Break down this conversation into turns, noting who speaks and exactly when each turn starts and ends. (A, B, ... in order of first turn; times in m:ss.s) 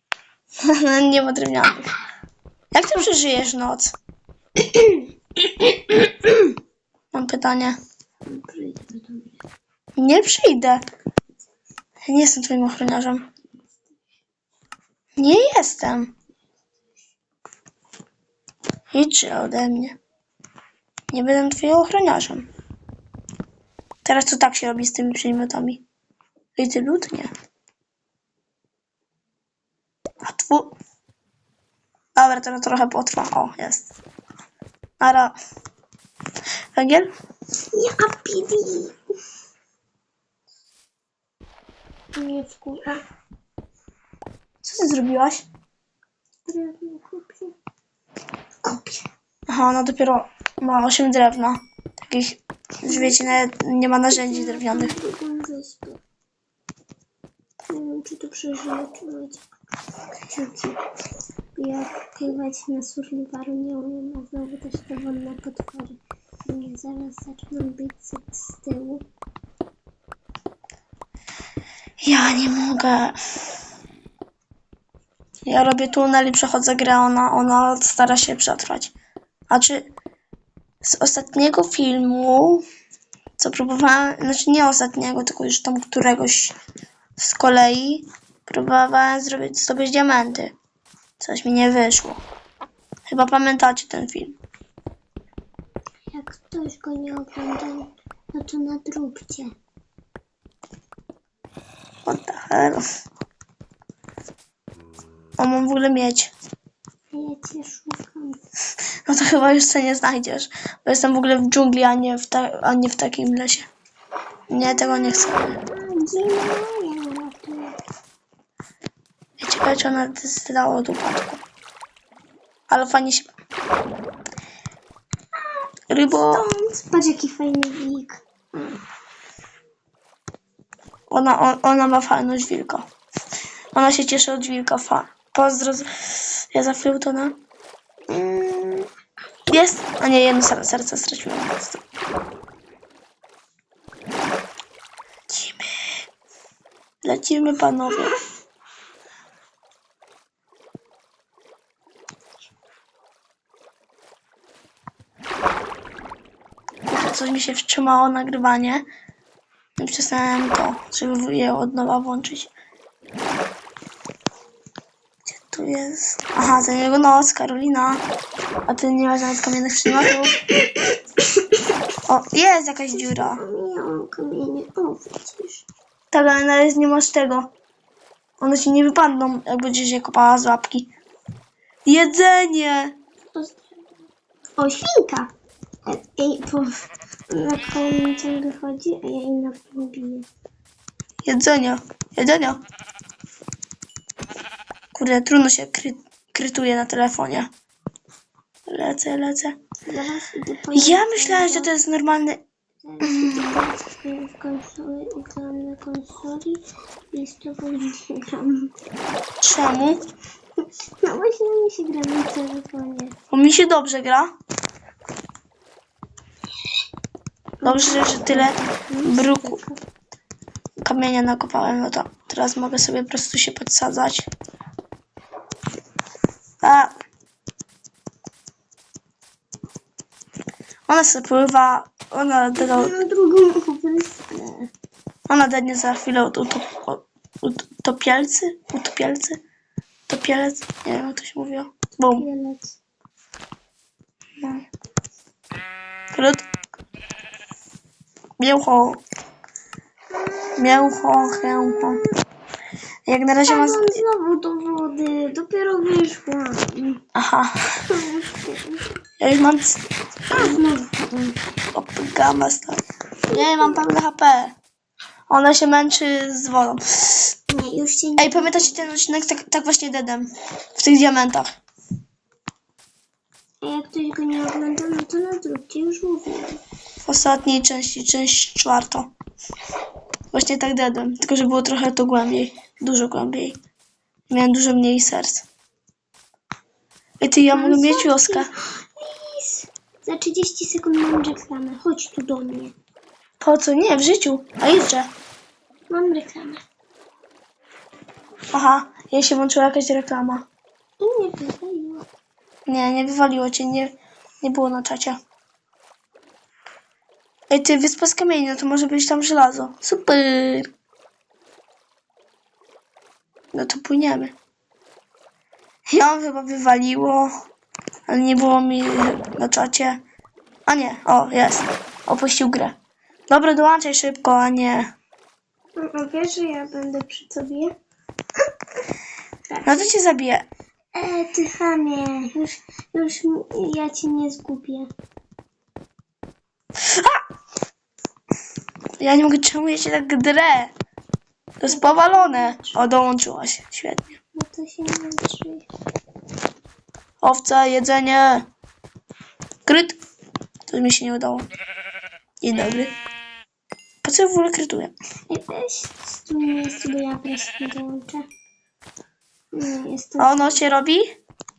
0:00.6-0:01.9 A
0:02.7-0:03.9 A
0:07.1-0:07.8 A
0:08.2-0:09.4 B
0:10.0-0:10.8 A
0:12.0-0:13.3 A
0:15.2-0:16.1 A
0:18.9-0:20.0 A
0:21.1-0:22.5 A
0:24.0-0:25.8 A
0:26.6-0:27.3 A
0:30.2-0:30.8 A
0:32.1-0:33.9 A
0:35.0-0:35.4 A
0:36.7-0:37.1 A
0:37.7-0:39.0 B
0:42.1-0:43.0 B
0:44.6-0:45.4 A
0:46.4-0:47.5 B
0:48.6-0:49.0 B
0:49.5-0:54.9 A
0:52.8-0:53.3 B
0:54.1-0:56.0 B
0:57.7-0:59.5 B
1:00.3-1:00.8 B
1:01.5-1:09.0 B
1:12.0-1:13.2 A
1:15.4-1:18.9 A
1:19.5-1:19.9 A
1:20.8-1:22.6 A
1:23.4-1:26.5 A
1:27.2-1:30.5 A
1:31.2-1:32.2 A
1:33.1-1:34.4 A
1:36.1-1:39.6 B
1:42.0-1:42.8 A
1:45.4-1:46.3 A
1:47.1-1:48.4 B
1:49.0-1:53.7 A
1:54.5-1:55.6 A
1:54.6-1:57.8 B
1:59.4-2:01.4 A
2:02.7-2:03.3 A
2:05.4-2:08.8 B
2:05.9-2:06.4 A
2:11.1-2:12.8 A
2:13.7-2:17.4 A
2:18.1-2:18.9 A
2:19.5-2:21.8 A
2:25.3-2:26.1 A
2:27.0-2:28.2 A
2:36.9-2:38.8 A
2:39.8-2:42.5 A
2:45.2-2:48.0 A
2:48.7-2:50.4 A
2:50.5-2:51.0 B
2:52.0-2:53.4 A
2:52.9-2:55.6 B
2:56.1-2:57.5 A
2:58.4-3:00.9 A
3:01.8-3:02.9 A
3:03.3-3:03.8 B
3:04.6-3:05.3 B
3:05.8-3:10.3 B
3:11.2-3:12.6 A
3:14.9-3:17.5 A
3:18.7-3:19.6 A
3:19.9-3:21.7 B
3:20.7-3:22.4 A
3:22.8-3:28.7 B
3:23.0-3:23.6 A
3:29.4-3:30.0 A
3:31.0-3:33.2 B
3:33.3-3:34.3 A
3:37.6-3:39.8 B
3:37.6-3:39.6 A
3:40.8-3:44.3 A
3:46.6-3:46.9 A
3:50.9-3:53.0 A
3:52.6-3:54.7 B
3:55.3-3:59.4 A
4:00.1-4:02.3 A
4:02.1-4:02.8 B
4:04.4-4:04.6 A
4:06.1-4:06.4 A
4:08.4-4:09.0 A
4:10.2-4:12.2 B
4:10.6-4:12.0 A
4:13.0-4:14.0 A
4:13.4-4:17.0 B
4:17.1-4:17.6 A
4:17.9-4:18.8 B
4:19.2-4:19.8 A
4:20.3-4:21.4 B
4:21.7-4:24.6 A
4:23.3-4:23.8 B
4:25.3-4:27.3 A
4:27.5-4:28.9 B
4:28.2-4:31.5 A
4:33.6-4:36.6 B
4:37.0-4:39.1 A
4:40.3-4:43.6 A
4:44.3-4:45.5 A
4:47.2-4:48.5 A
4:47.5-4:52.7 B
4:53.4-4:55.1 A
4:55.9-4:56.6 B
4:58.5-5:00.5 A
5:01.0-5:02.0 B
5:02.7-5:05.2 A
5:07.5-5:10.7 A
5:13.5-5:14.4 A
5:15.9-5:17.3 A
5:18.1-5:20.0 A
5:20.6-5:22.8 A
5:23.3-5:24.9 A
5:25.8-5:27.7 B
5:29.5-5:29.9 B
5:29.6-5:30.5 A
5:30.9-5:34.9 B
5:36.9-5:37.2 A
5:39.0-5:40.7 A
5:41.6-5:44.2 A
5:41.6-5:42.9 B
5:44.3-5:45.7 B
5:47.2-5:48.5 A
5:49.6-5:50.0 A
5:50.7-5:51.5 A
5:52.4-5:52.9 A
5:54.0-5:54.9 A
5:55.3-5:58.3 B
5:59.5-6:00.6 B
6:00.2-6:01.1 A